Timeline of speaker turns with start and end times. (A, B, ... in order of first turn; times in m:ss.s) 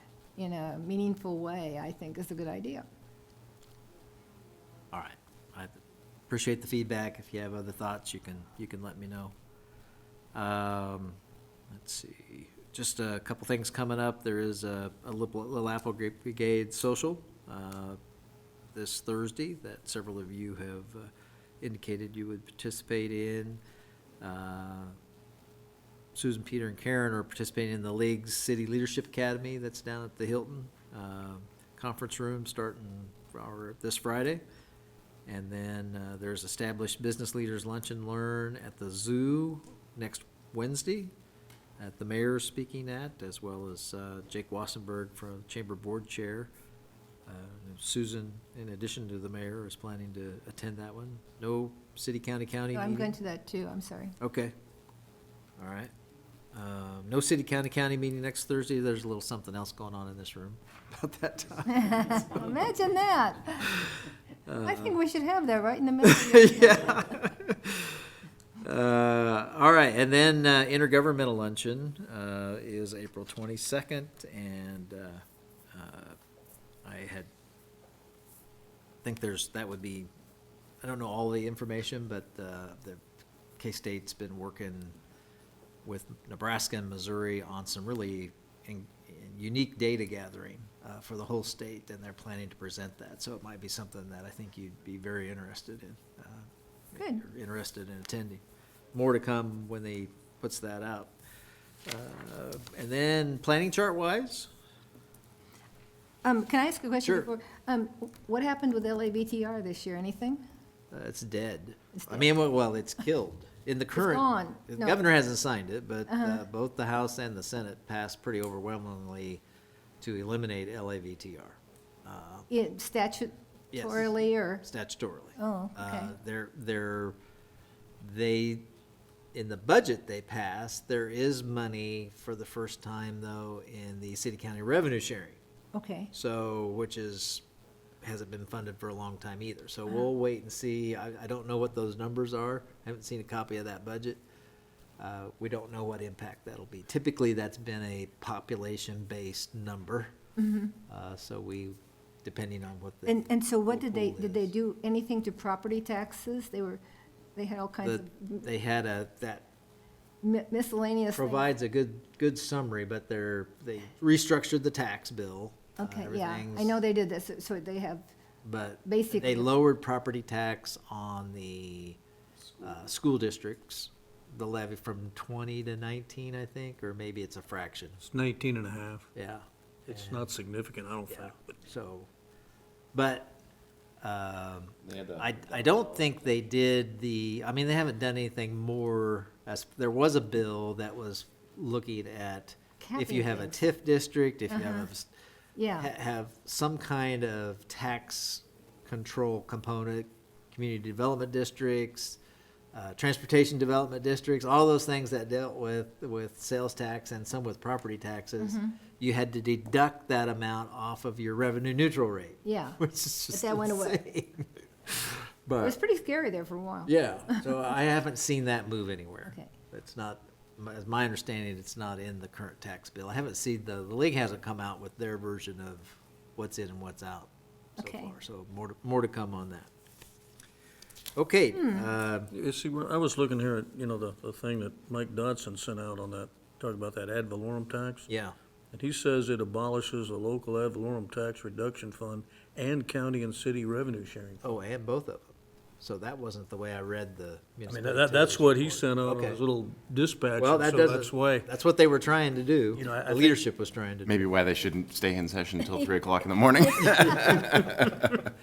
0:00.4-0:02.9 A
0:04.9-0:09.3 B
0:10.3-0:11.2 B
0:11.7-0:18.0 B
0:18.7-0:23.6 B
0:24.2-0:25.0 B
0:26.1-0:34.4 B
0:35.3-0:41.1 B
0:41.8-0:46.5 B
0:47.3-0:53.2 B
0:52.7-0:54.2 A
0:54.2-0:54.5 B
0:55.6-0:55.9 B
0:56.5-1:02.6 B
1:01.7-1:03.9 A
1:03.7-1:05.0 B
1:04.6-1:07.1 A
1:06.0-1:08.0 B
1:08.6-1:16.2 B
1:16.8-1:17.3 B
1:19.0-1:20.1 B
1:20.8-1:23.0 B
1:23.6-1:25.0 B
1:25.8-1:38.4 B
1:37.0-1:37.2 A
1:38.9-1:41.1 B
1:41.8-1:44.5 B
1:46.2-1:50.4 A
1:47.0-1:47.3 B
1:50.9-1:59.4 B
1:51.9-1:52.2 A
1:54.0-1:55.0 A
1:56.1-1:56.4 A
2:00.0-2:02.5 B
2:02.5-2:04.6 A
2:03.7-2:07.2 B
2:05.4-2:06.1 A
2:08.0-2:08.6 B
2:09.3-2:15.4 B
2:15.7-2:16.1 A
2:16.1-2:17.4 B
2:18.0-2:24.2 B
2:25.0-2:30.1 B
2:30.4-2:30.7 A
2:30.9-2:34.5 B
2:33.1-2:36.8 A
2:37.4-2:38.5 A
2:37.8-2:39.5 B
2:40.2-2:41.4 A
2:41.2-2:46.8 B
2:45.8-2:48.1 A
2:48.4-2:52.0 B
2:48.8-2:49.5 A
2:52.6-2:58.0 B
2:58.0-2:59.1 C
2:59.2-3:00.2 B
2:59.9-3:01.6 C
3:01.1-3:02.1 B
3:02.9-3:03.4 B
3:04.0-3:15.1 B
3:04.9-3:05.8 D
3:12.8-3:13.5 A
3:14.5-3:14.9 A
3:15.6-3:15.9 A
3:15.8-3:22.2 B
3:22.7-3:35.8 B
3:28.4-3:28.8 A
3:32.4-3:32.8 A
3:33.3-3:34.0 A
3:35.6-3:37.4 A
3:36.9-3:49.7 B
3:47.8-3:48.1 A
3:51.2-3:52.3 B
3:52.3-3:58.1 C
3:58.1-3:58.4 B
3:58.7-4:04.4 C
4:04.4-4:05.3 B
4:05.8-4:09.4 B
4:07.7-4:11.5 C
4:10.4-4:14.3 B
4:12.8-4:13.4 C
4:14.1-4:18.2 D